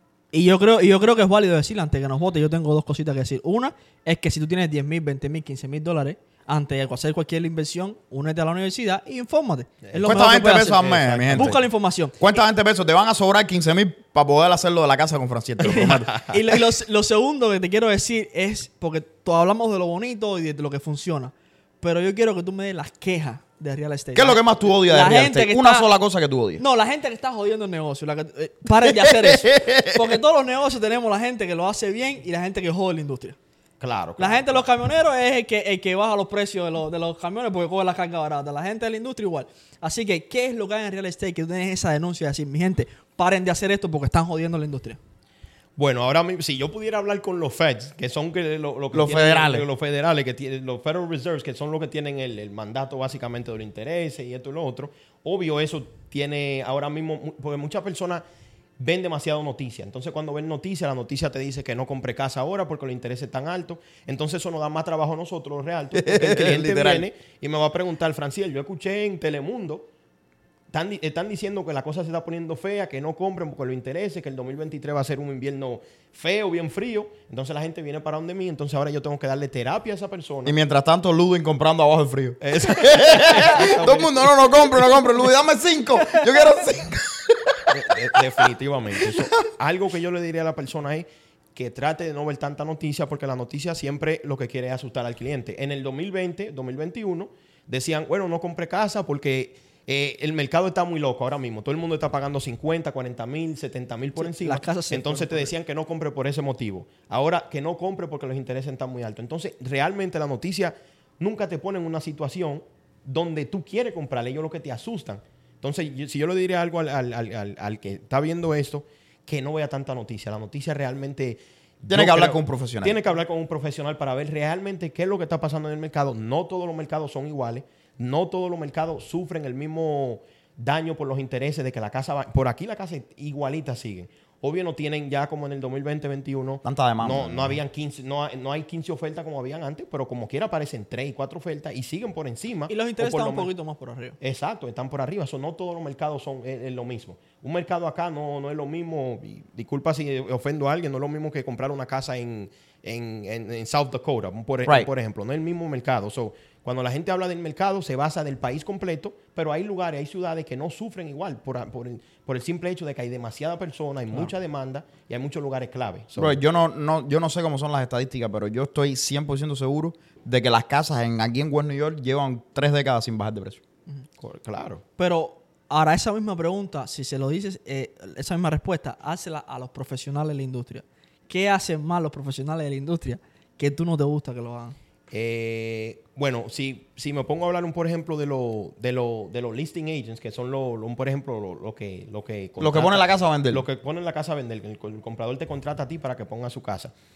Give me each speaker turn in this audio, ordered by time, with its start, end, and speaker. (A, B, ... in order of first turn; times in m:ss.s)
0:00.3-0:12.2 A
0:09.8-0:10.1 B
0:10.0-0:11.6 C
0:10.8-0:11.6 B
0:12.2-0:16.2 C
0:15.6-0:25.9 A
0:16.0-0:16.4 B
0:24.1-0:26.6 C
0:26.6-0:33.4 A
0:28.8-0:30.2 C
0:33.8-0:34.7 B
0:34.2-0:45.0 A
0:45.8-0:58.2 B
0:48.9-0:49.6 C
0:58.8-1:09.9 B
1:05.9-1:07.1 C
1:10.7-1:20.6 B
1:20.4-1:28.2 C
1:22.4-1:24.4 B
1:27.7-2:23.5 B
1:29.0-1:29.4 C
1:44.2-1:45.5 A
2:01.9-2:03.0 C
2:16.6-2:17.6 C
2:22.7-2:24.2 A
2:24.2-2:46.4 B
2:46.2-2:53.6 C
2:54.2-2:54.8 B
2:55.0-3:04.8 A
3:05.1-3:16.9 B
3:12.6-3:13.6 C